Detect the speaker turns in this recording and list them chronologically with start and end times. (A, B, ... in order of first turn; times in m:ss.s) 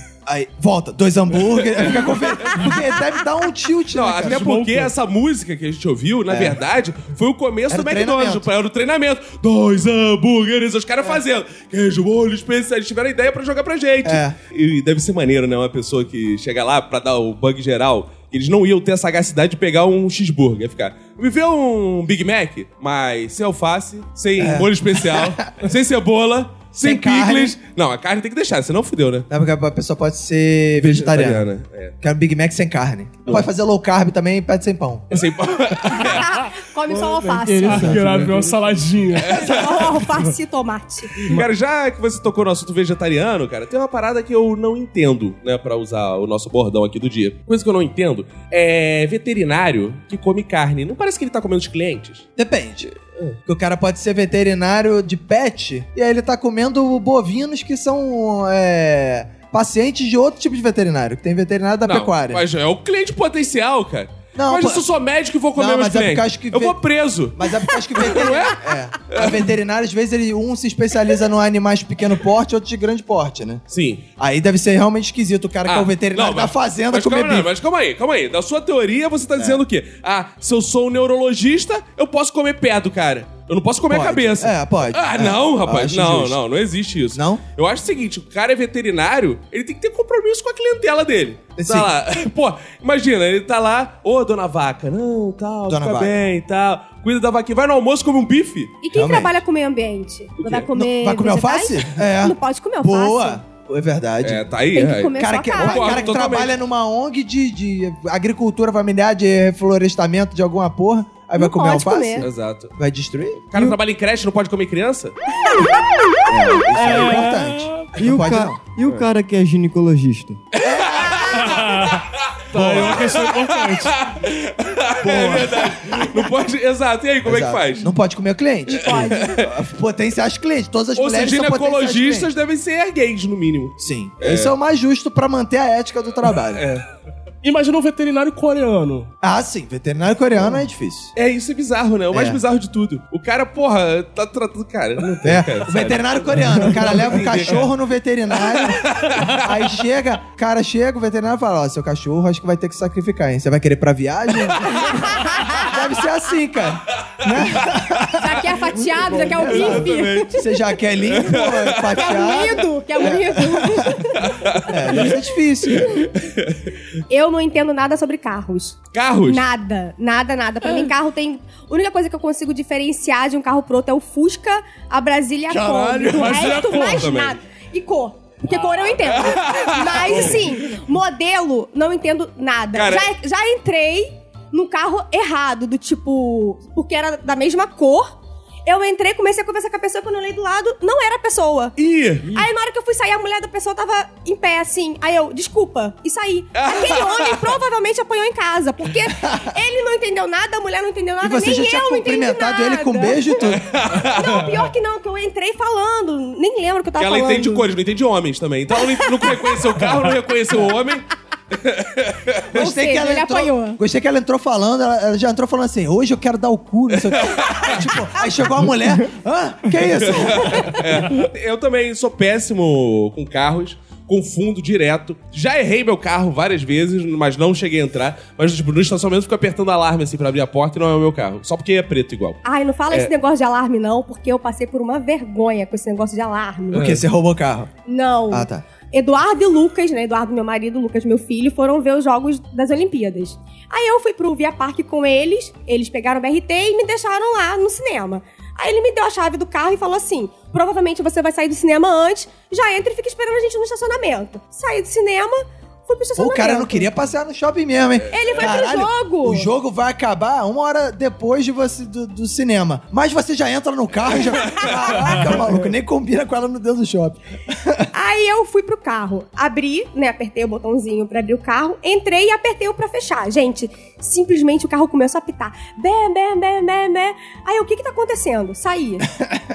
0:00.2-0:04.4 A
0:01.8-0:02.7 B
0:03.9-0:29.3 B
0:04.2-0:04.9 C
0:06.3-0:06.6 A
0:07.7-0:08.4 A
0:14.0-0:14.3 A
0:24.4-0:25.5 A
0:26.8-0:27.6 A
0:29.3-0:31.4 A
0:30.8-0:31.9 B
0:32.0-0:35.0 A
0:35.1-0:36.4 B
0:35.9-0:38.0 D
0:37.2-0:38.9 E
0:37.6-0:39.4 C
0:39.2-0:40.0 B
0:39.2-0:41.2 D
0:41.2-0:52.2 B
0:52.4-0:52.9 A
0:53.4-1:02.4 A
1:01.8-1:09.5 B
1:04.3-1:04.8 A
1:05.5-1:06.8 A
1:07.3-1:13.6 A
1:13.7-1:14.0 B
1:14.2-1:17.5 A
1:15.6-1:38.8 B
1:23.9-1:26.4 A
1:27.1-1:27.4 A
1:31.6-1:31.9 A
1:35.7-1:36.1 A
1:38.8-1:43.4 D
1:38.9-1:39.4 A
1:40.4-1:40.7 B
1:40.7-1:44.4 A
1:44.2-1:46.5 B
1:44.7-1:46.1 D
1:45.2-1:53.4 A
1:51.4-1:52.2 D
1:52.2-1:52.7 B
1:53.5-1:55.2 B
1:56.3-1:58.6 A
1:56.7-1:57.9 C
1:58.0-2:00.4 E
2:00.5-2:02.1 B
2:00.6-2:01.5 A
2:01.4-2:04.0 C
2:02.5-2:03.0 A
2:02.6-2:07.9 B
2:05.0-2:06.2 A
2:07.2-2:12.3 A
2:08.7-2:09.5 B
2:08.7-2:09.3 D
2:10.9-2:14.5 B
2:13.8-2:16.6 A
2:16.5-2:16.8 B
2:17.4-2:19.1 C
2:19.2-2:21.1 A
2:21.2-2:27.7 B
2:22.1-2:22.4 A
2:25.2-2:44.0 A
2:28.4-2:29.4 B
2:34.9-2:35.7 D
2:37.4-2:37.6 B
2:38.2-2:40.4 D
2:39.0-2:42.1 B
2:41.9-2:44.2 D
2:44.2-2:45.2 B
2:44.6-2:46.1 A
2:45.8-2:46.6 B
2:47.1-3:08.1 D
2:48.9-2:49.5 B
2:55.5-2:57.4 B
2:56.0-2:57.1 C
2:59.0-3:00.4 B
3:02.7-3:03.1 B
3:08.6-3:11.8 D
3:11.8-3:12.3 B
3:12.3-3:23.4 D
3:16.6-3:17.5 B
3:21.2-3:23.7 A
3:23.4-3:24.6 B
3:23.9-3:27.7 D
3:27.0-3:32.4 B
3:28.8-3:29.6 D
3:32.5-3:33.8 D
3:32.5-3:40.8 A
3:36.9-3:37.8 B
3:40.0-3:53.1 B
3:52.4-3:56.9 D
3:56.7-3:57.0 B
3:56.7-3:57.7 A
3:57.9-4:16.9 D
3:58.3-3:58.6 A
4:16.2-4:27.9 A
4:18.1-4:19.5 D
4:27.9-4:39.1 D